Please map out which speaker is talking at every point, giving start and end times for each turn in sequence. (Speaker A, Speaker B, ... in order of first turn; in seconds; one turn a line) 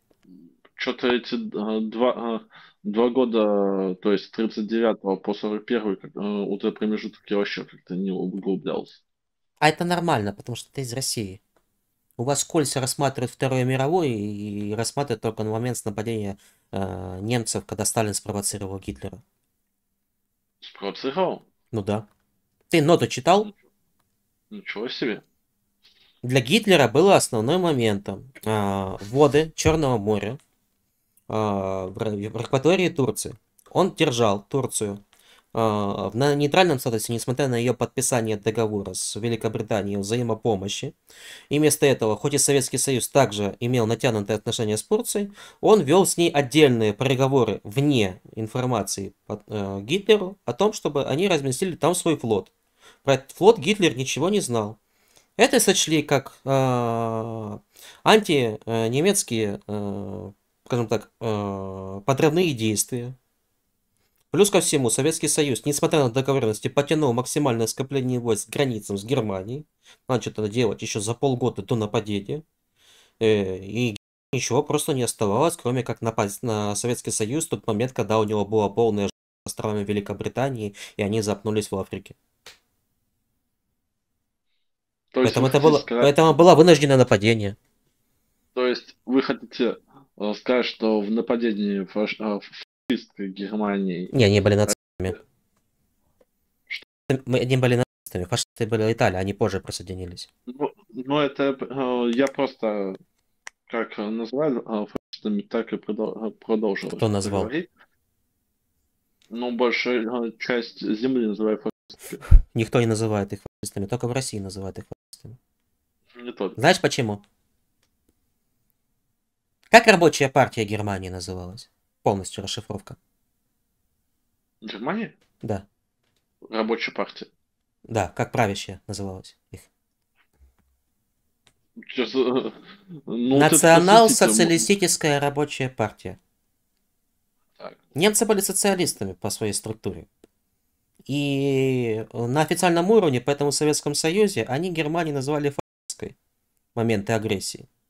Speaker A: 0.8-9.0
Speaker B: 9.6-11.4
Speaker B: 12.2-19.2
Speaker A: 20.6-21.4
Speaker B: 21.7-22.1
Speaker B: 22.7-23.5
Speaker A: 24.5-25.2
Speaker B: 26.2-30.4
Speaker B: 31.3-35.0
Speaker B: 35.5-40.9
Speaker B: 41.5-52.5
Speaker B: 53.0-54.8
Speaker B: 55.4-63.1
Speaker B: 64.3-72.4
Speaker B: 73.2-82.1
Speaker A: 85.1-86.1
Speaker B: 85.2-87.5
Speaker A: 88.5-94.1
Speaker B: 94.1-95.2
Speaker B: 97.1-100.3
Speaker A: 100.5-103.0
Speaker A: 103.7-107.7
Speaker B: 106.9-107.5
Speaker A: 109.3-112.2
Speaker B: 112.5-115.4
Speaker A: 116.2-116.6
Speaker B: 116.6-117.2
Speaker B: 119.7-123.0
Speaker A: 124.6-125.1
Speaker A: 126.5-127.3
Speaker B: 127.9-129.7
Speaker A: 131.8-134.7
Speaker B: 133.3-136.2
Speaker B: 137.9-140.1
Speaker B: 141.1-146.1
Speaker B: 146.7-147.7